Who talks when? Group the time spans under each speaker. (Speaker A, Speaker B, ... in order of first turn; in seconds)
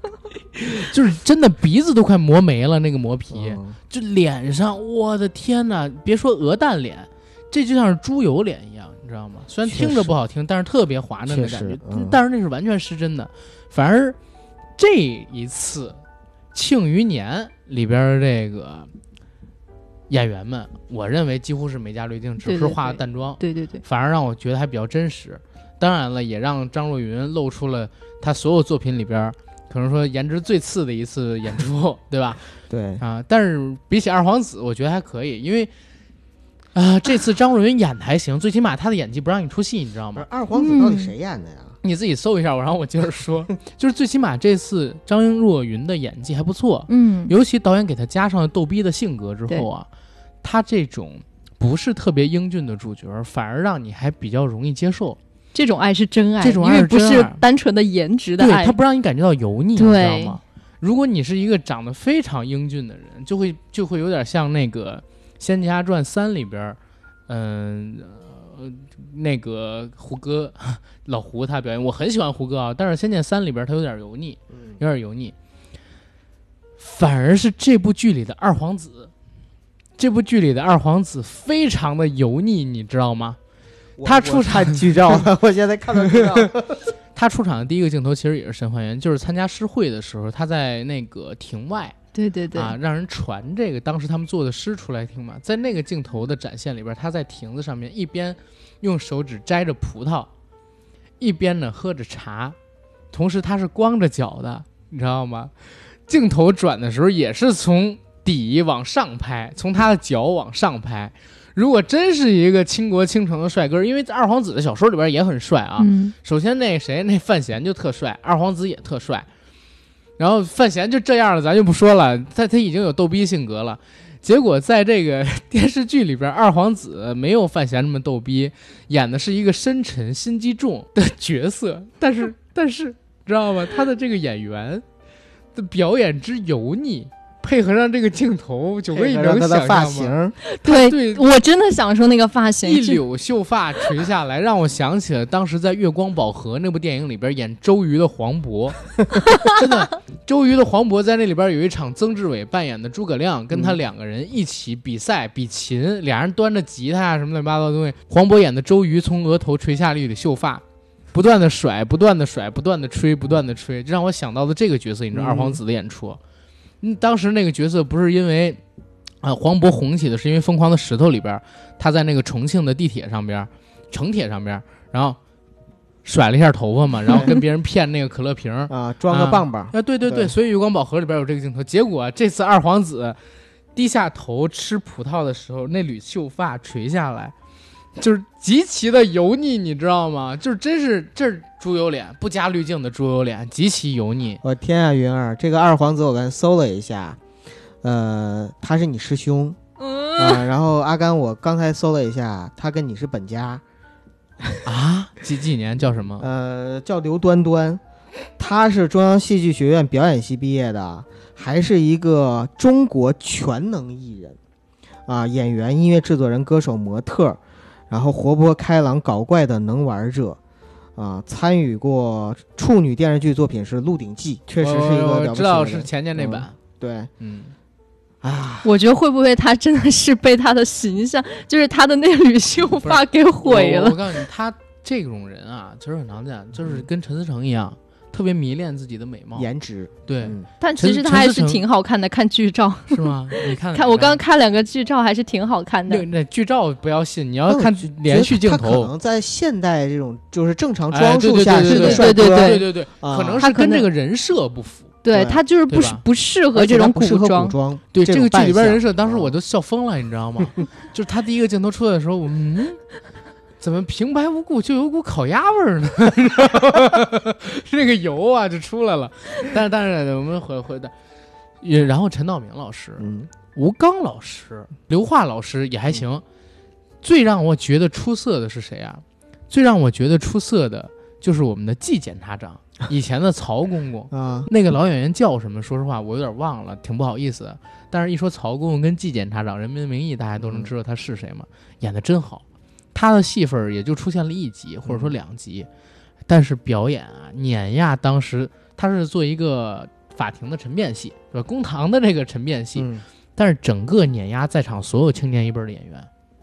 Speaker A: 0.6-14.2, 14.8-16.0, 16.5-18.9, 20.1-32.4, 33.0-35.7, 36.7-40.2, 41.8-49.9, 50.4-55.2, 56.4-57.4, 58.4-75.3, 76.8-79.1, 80.0-83.4, 84.0-85.2, 86.1-86.5, 87.1-92.0, 92.5-100.3, 101.2-102.5, 103.1-105.5, 106.0-119.3, 120.2-134.8, 135.5-141.2, 142.6-148.8, 149.3-166.2, 166.8-168.6, 169.2-175.2, 176.0-183.2, 183.7-187.3, 188.0-194.4, 204.6-206.2, 224.6-226.6, 227.2-227.5, 232.8-239.5, 240.1-241.6, 242.9-244.2, 245.9-248.9, 250.9-254.9, 255.7-256.0, 257.9-262.8, 263.6-270.9, 271.6-276.2, 277.0-295.7, 296.3-306.1
Speaker B: 3.3-3.8, 9.7-10.1, 11.3-12.2, 32.7-33.0, 40.1-41.8, 84.0-86.8, 138.9-140.3, 165.1-165.6, 177.1-177.3, 178.7-180.3, 194.4-197.2, 197.8-199.6, 200.1-203.6, 206.2-207.8, 208.4-214.4, 215.1-220.4, 220.9-227.1, 228.2-228.7, 239.3-240.5, 247.5-253.4, 255.1-255.4, 256.5-259.3, 273.0-273.3, 284.1-284.5, 290.4-290.7, 294.8-295.1, 302.8-303.0
Speaker C: 22.4-23.8, 40.5-41.1, 46.9-47.3, 55.5-58.8, 59.8-60.4, 92.1-92.7, 115.8-116.1, 140.4-143.0, 199.8-200.4, 228.6-234.1, 240.6-246.0, 251.6-252.7, 253.4-253.9, 255.0-257.5